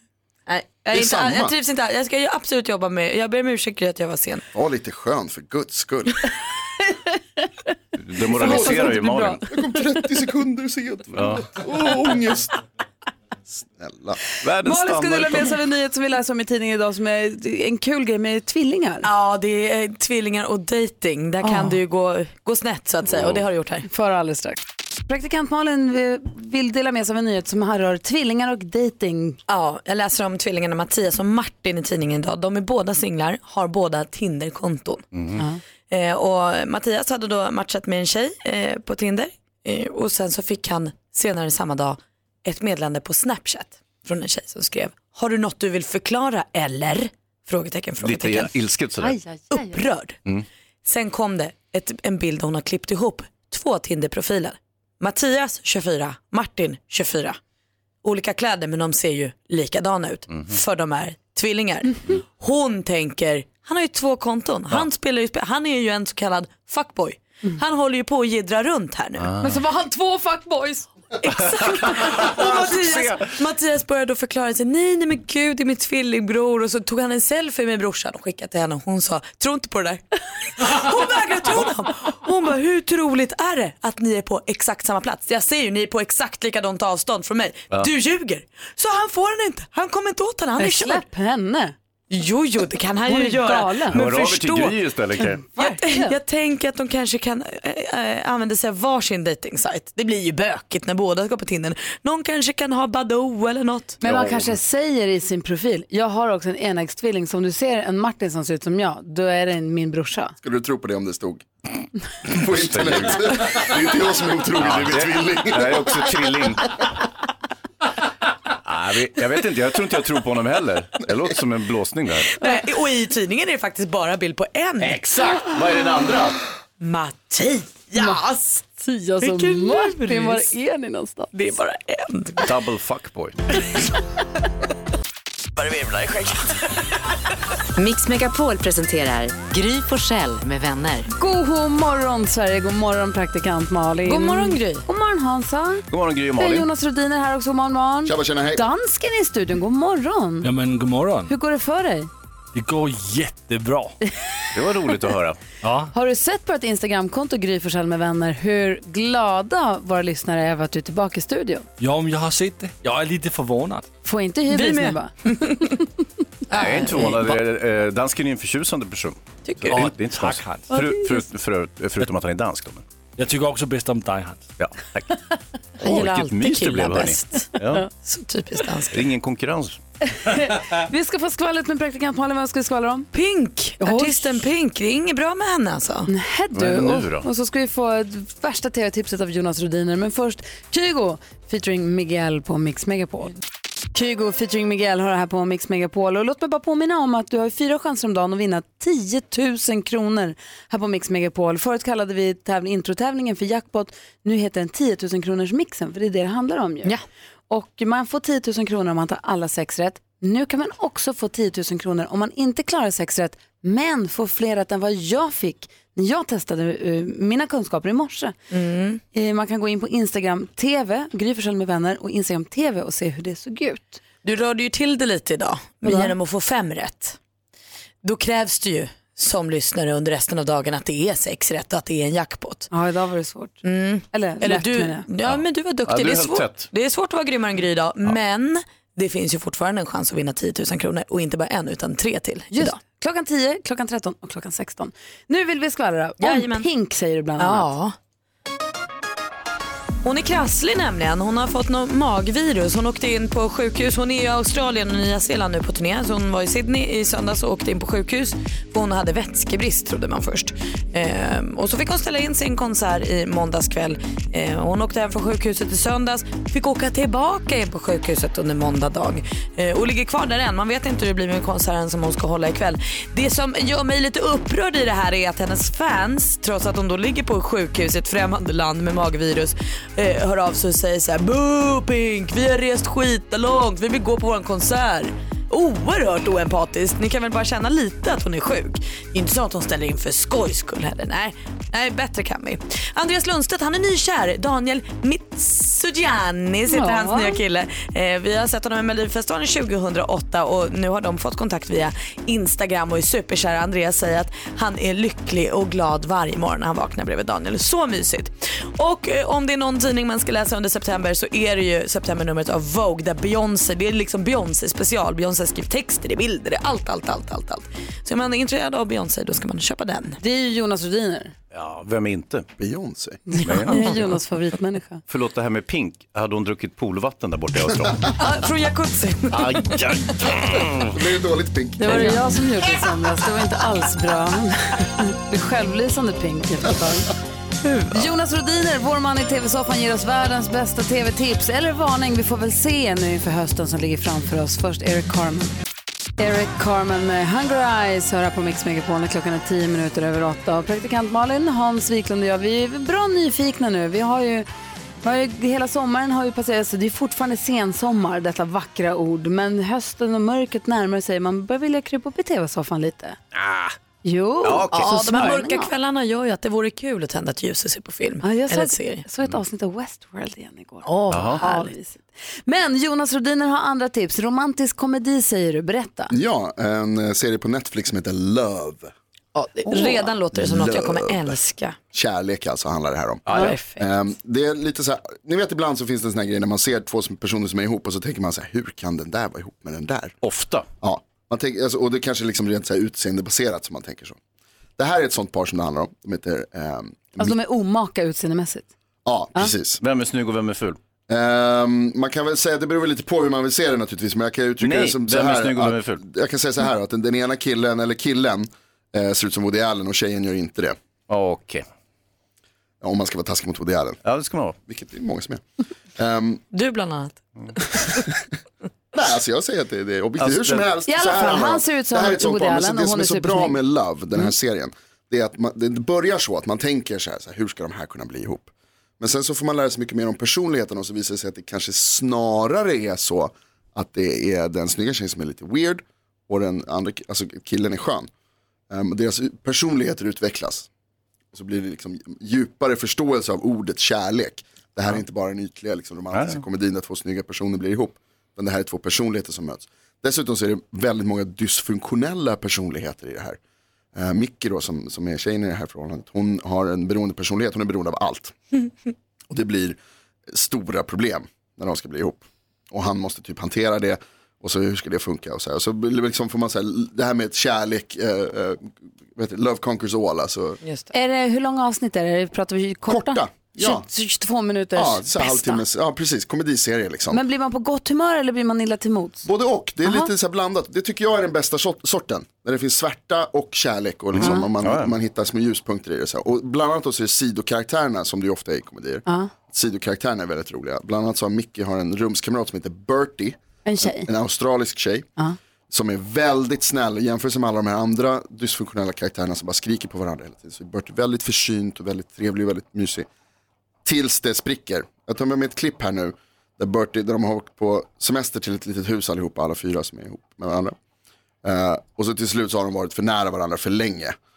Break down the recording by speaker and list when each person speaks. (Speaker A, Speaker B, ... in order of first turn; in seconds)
Speaker A: 0.5-4.4, 19.0-23.9, 29.5-35.0, 35.9-48.5, 49.5-50.2, 50.8-57.4, 58.0-69.3, 71.2-80.0, 80.5-91.0, 92.1-94.8, 95.5-104.0, 122.3-125.0, 126.8-128.3, 129.2-130.5, 131.3-132.5, 135.6-136.7, 144.0-144.8, 164.5-165.8, 166.5-167.4, 169.4-169.8, 175.8-179.0, 183.1-186.1, 218.5-219.0, 224.2-227.2, 228.0-232.7, 233.6-242.8, 246.2-246.7, 247.4-247.9, 250.0-320.2, 323.4-324.1, 328.2-330.0, 331.9-332.3, 337.6-338.1, 364.7-369.0, 370.8-371.7, 379.6-381.8, 383.3-383.9, 416.5-417.2, 470.6-470.9
Speaker B: 0.9-1.5, 4.5-6.2, 8.4-12.5, 13.5-14.2, 110.4-111.5, 112.3-115.9, 148.0-148.6, 322.6-323.2, 330.9-332.0, 376.1-378.9, 380.3-381.4, 381.9-390.1, 390.8-394.2, 394.8-397.4, 399.0-399.8, 401.1-410.8, 412.8-414.0, 414.6-415.4, 415.9-416.4, 418.9-438.1, 438.7-440.7, 441.3-453.4, 453.9-458.4, 459.3-459.8, 460.3-470.6, 472.9-473.9, 474.7-477.2, 479.2-495.1, 495.7-503.1, 503.8-510.8, 511.4-514.1
Speaker C: 8.0-9.4, 11.1-11.6, 14.4-15.6, 23.1-23.4, 35.1-35.4, 48.0-49.2, 69.2-69.6, 71.8-73.2, 93.9-95.4, 104.0-104.6, 112.3-113.8, 114.6-116.9, 118.5-122.3, 124.8-126.4, 132.4-133.4, 145.9-146.7, 154.5-155.4, 166.5-172.8, 174.6-175.2, 175.8-177.9, 178.9-179.8, 186.5-187.3, 235.2-236.7, 321.5-322.5, 323.4-323.9, 325.1-328.1, 329.3-331.0, 363.3-363.7, 364.4-365.2, 371.1-371.4, 383.2-383.6, 390.2-390.7, 399.8-400.8, 404.6-406.0, 411.1-411.6, 414.0-414.6, 420.2-420.7, 446.1-446.4, 484.1-484.9
Speaker D: 8.3-9.8, 14.6-19.1, 21.4-21.8, 23.9-29.4, 49.0-49.8, 69.4-70.9, 90.6-91.7, 93.0-94.0, 95.5-96.2, 104.0-110.3, 128.0-131.3, 141.1-145.8, 146.3-150.5, 151.3-152.1, 155.9-161.6, 164.0-165.6, 170.7-171.1, 180.1-183.1, 183.8-184.5, 186.1-193.3, 193.9-206.9, 207.5-218.3, 219.1-224.0, 225.8-226.1, 232.7-233.6, 234.1-235.1, 242.5-247.7, 296.6-297.4, 320.2-321.3, 323.3-325.0, 331.8-337.1, 337.9-345.5, 346.2-354.5, 355.0-363.2, 364.0-365.7, 368.2-376.1, 379.3-380.1, 383.3-383.6, 397.2-398.7, 420.9-423.6, 470.9-475.6, 477.1-479.3, 479.8-480.1, 484.2-484.5, 493.6-494.1
Speaker E: 137.8-141.0
Speaker F: 150.4-151.3, 152.5-153.9, 155.6-155.9, 161.8-163.9, 169.7-170.7, 173.2-174.5